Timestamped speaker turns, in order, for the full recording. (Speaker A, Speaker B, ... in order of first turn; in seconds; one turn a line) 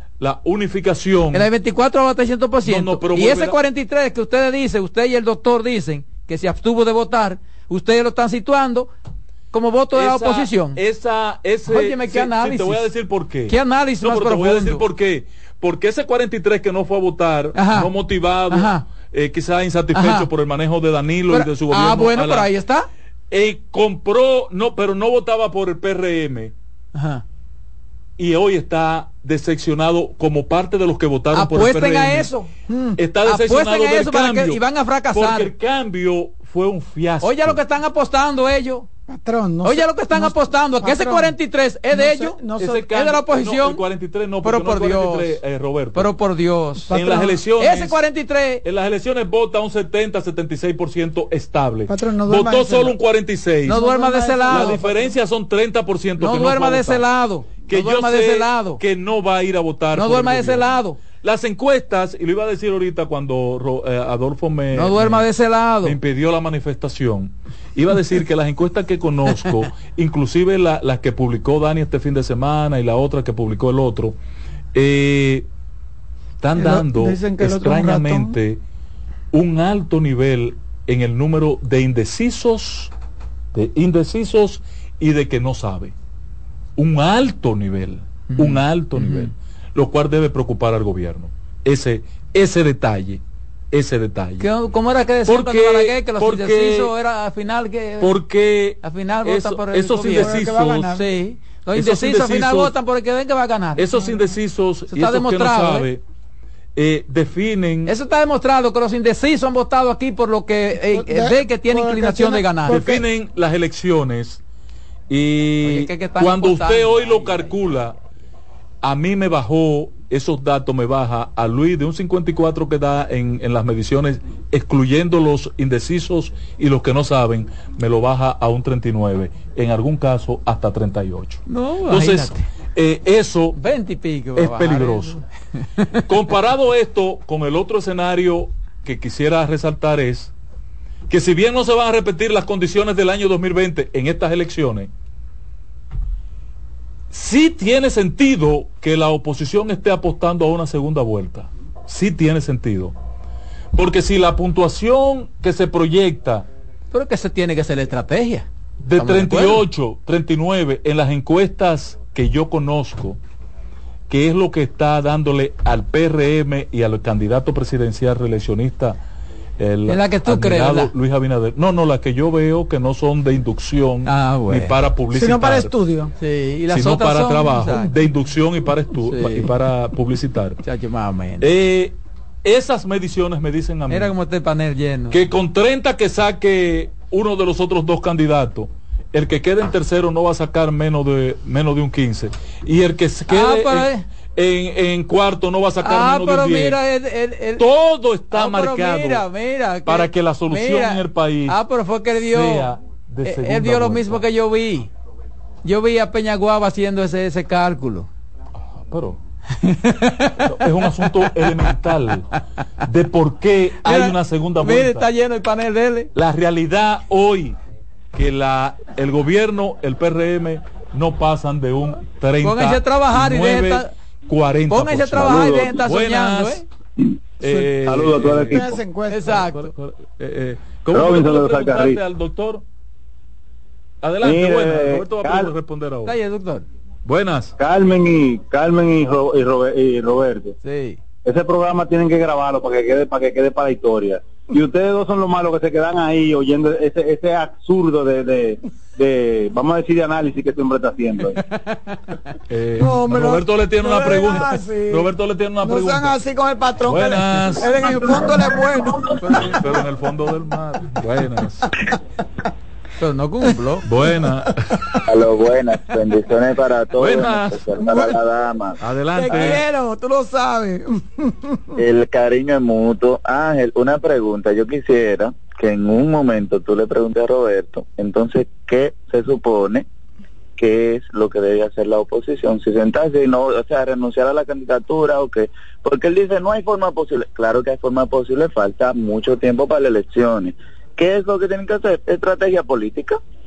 Speaker A: 0.2-1.5
Speaker B: 1.3-8.9
Speaker A: 2.6-3.6
Speaker B: 9.5-10.8
Speaker A: 9.9-22.5
Speaker B: 11.7-12.9
Speaker B: 13.5-14.8
Speaker B: 17.6-17.9
Speaker B: 18.5-18.8
Speaker B: 19.9-20.3
Speaker B: 21.3-22.9
Speaker A: 23.3-26.5
Speaker B: 26.9-27.2
Speaker A: 28.2-32.3
Speaker B: 31.3-32.5
Speaker C: 32.7-33.0
Speaker A: 33.0-34.6
Speaker B: 33.2-35.5
Speaker A: 35.1-37.6
Speaker B: 37.2-38.9
Speaker C: 39.1-41.4
Speaker B: 39.6-42.4
Speaker C: 41.9-42.9
Speaker A: 42.6-46.1
Speaker B: 42.9-43.8
Speaker B: 44.4-45.4
Speaker B: 45.9-46.9
Speaker C: 46.9-47.4
Speaker A: 46.9-48.0
Speaker B: 47.6-48.6
Speaker A: 48.6-53.8
Speaker C: 51.9-53.0
Speaker C: 53.6-55.1
Speaker B: 53.7-54.8
Speaker A: 54.5-57.0
Speaker B: 56.2-58.8
Speaker A: 57.7-65.2
Speaker B: 60.0-61.0
Speaker B: 64.7-66.0
Speaker A: 65.8-74.2
Speaker A: 74.7-75.5
Speaker A: 76.4-78.6
Speaker C: 76.5-78.3
Speaker A: 79.3-82.9
Speaker A: 83.5-85.9
Speaker A: 86.8-93.2
Speaker B: 88.3-89.3
Speaker A: 93.7-94.5
Speaker B: 94.4-98.2
Speaker A: 95.3-96.9
Speaker A: 98.0-101.0
Speaker B: 98.8-103.9
Speaker C: 100.1-101.0
Speaker A: 101.7-102.7
Speaker A: 103.8-106.0
Speaker B: 104.9-105.9
Speaker A: 106.8-107.9
Speaker B: 107.8-112.9
Speaker C: 110.8-113.0
Speaker A: 112.7-114.4
Speaker A: 115.1-117.9
Speaker B: 115.6-117.5
Speaker A: 118.8-133.6
Speaker B: 131.5-132.4
Speaker B: 133.6-135.2
Speaker A: 134.3-135.2
Speaker A: 136.1-140.3
Speaker A: 141.1-144.9
Speaker A: 147.1-152.9
Speaker A: 153.7-156.4
Speaker B: 156.9-159.6
Speaker A: 158.8-163.2
Speaker A: 164.1-169.0
Speaker A: 169.6-175.7
Speaker B: 169.9-170.9
Speaker B: 174.1-174.8
Speaker C: 175.1-176.1
Speaker B: 176.2-177.9
Speaker A: 176.7-180.6
Speaker B: 179.1-179.5
Speaker B: 180.6-181.5
Speaker A: 181.4-184.1
Speaker B: 183.9-185.2
Speaker A: 185.1-196.8
Speaker B: 193.3-194.0
Speaker B: 195.8-197.6
Speaker A: 197.6-199.2
Speaker B: 198.3-202.7
Speaker A: 199.8-201.6
Speaker A: 202.2-204.2
Speaker B: 203.2-204.9
Speaker B: 205.6-208.1
Speaker A: 208.6-209.2
Speaker B: 209.6-210.4
Speaker A: 210.4-212.3
Speaker A: 212.8-215.1
Speaker B: 213.8-216.1
Speaker A: 216.1-217.6
Speaker A: 218.1-226.6
Speaker B: 222.4-223.9
Speaker B: 224.7-226.6
Speaker A: 227.4-232.6
Speaker D: 227.8-228.6
Speaker C: 228.5-229.2
Speaker B: 229.1-229.7
Speaker D: 230.9-232.0
Speaker A: 234.0-236.1
Speaker D: 234.2-235.5
Speaker B: 236.1-236.6
Speaker A: 237.1-237.5
Speaker D: 237.6-240.5
Speaker B: 240.6-241.0
Speaker D: 241.2-251.4
Speaker A: 252.5-256.2
Speaker C: 252.8-255.1
Speaker C: 255.6-259.6
Speaker A: 256.8-258.4
Speaker A: 259.2-261.7
Speaker B: 263.0-263.8
Speaker A: 263.8-264.8
Speaker E: 265.1-268.8
Speaker A: 267.0-267.7
Speaker A: 268.8-269.6
Speaker C: 269.1-271.7
Speaker E: 271.8-279.8
Speaker E: 280.6-293.2